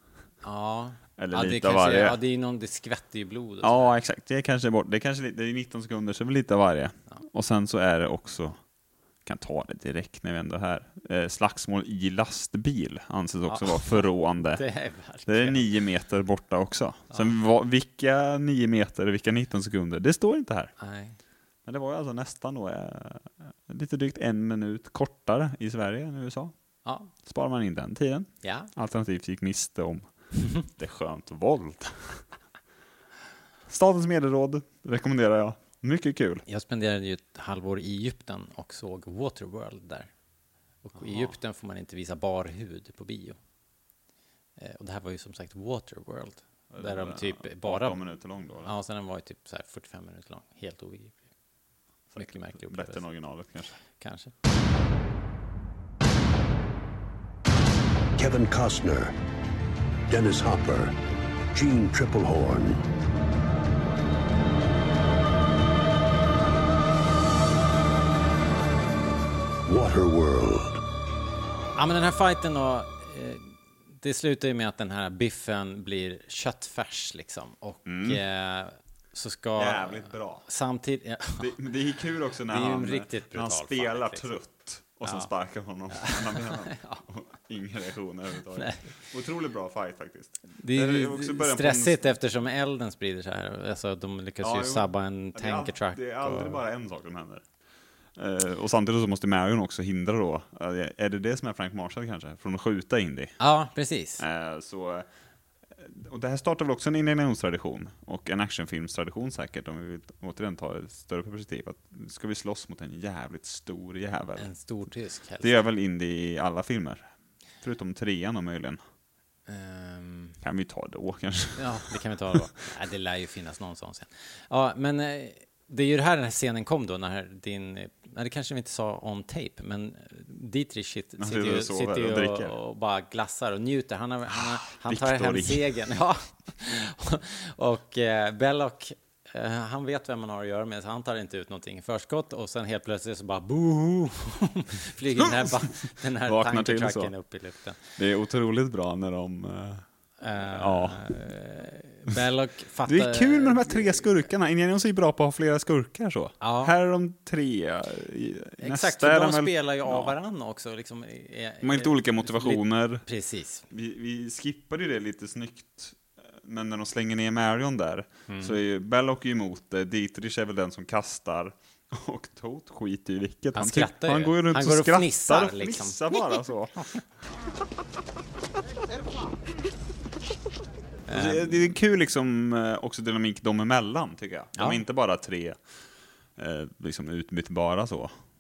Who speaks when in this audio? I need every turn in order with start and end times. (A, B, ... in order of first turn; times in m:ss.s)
0:00.4-0:03.9 A
0:01.2-0:02.2 B
0:03.6-0:08.6 B
0:09.2-0:14.6 B
0:13.5-0:15.7 A
0:15.3-0:20.7 B
0:20.8-0:21.2 A
0:21.6-0:26.5 B
0:26.8-0:27.1 A
0:27.2-0:32.3 B
0:28.4-0:28.7 A
0:33.7-0:36.4 B
0:36.5-0:40.1 A
0:40.8-0:43.4 A
0:44.6-0:48.0 A
0:46.7-0:48.7 B
0:48.6-0:51.2 A
0:52.1-0:53.0 A
0:52.1-0:53.8 B
0:54.0-0:54.3 A
0:58.2-0:59.1 C
1:00.1-1:00.9 C
1:01.5-1:02.8 C
1:09.6-1:10.8 C
1:11.8-1:21.5 A
1:17.9-1:18.2 B
1:19.6-1:20.4 B
1:21.4-1:32.1 B
1:22.5-1:24.4 A
1:25.0-1:25.3 A
1:25.9-1:27.0 A
1:28.5-1:28.9 A
1:30.5-1:36.6 A
1:34.4-1:37.4 B
1:38.2-1:43.4 B
1:43.4-1:44.2 A
1:44.2-1:45.0 B
1:45.8-1:54.5 B
1:54.4-1:55.6 A
1:55.4-1:57.1 B
1:57.6-1:58.8 B
1:59.5-2:00.4 A
2:00.4-2:02.4 B
2:01.6-2:27.8 A
2:11.2-2:12.5 B
2:14.3-2:15.7 B
2:25.2-2:25.5 B
2:26.2-2:27.1 B
2:28.0-2:29.8 B
2:30.2-2:34.0 A
2:30.4-2:31.2 B
2:32.8-2:40.1 B
2:36.4-2:36.7 A
2:38.6-2:43.6 A
2:41.6-2:43.0 B
2:43.7-2:56.9 B
2:48.3-2:48.6 A
2:53.5-2:56.0 A
3:01.1-3:01.6 A
3:01.1-3:05.6 B
3:04.6-3:04.8 A
3:06.4-3:08.1 B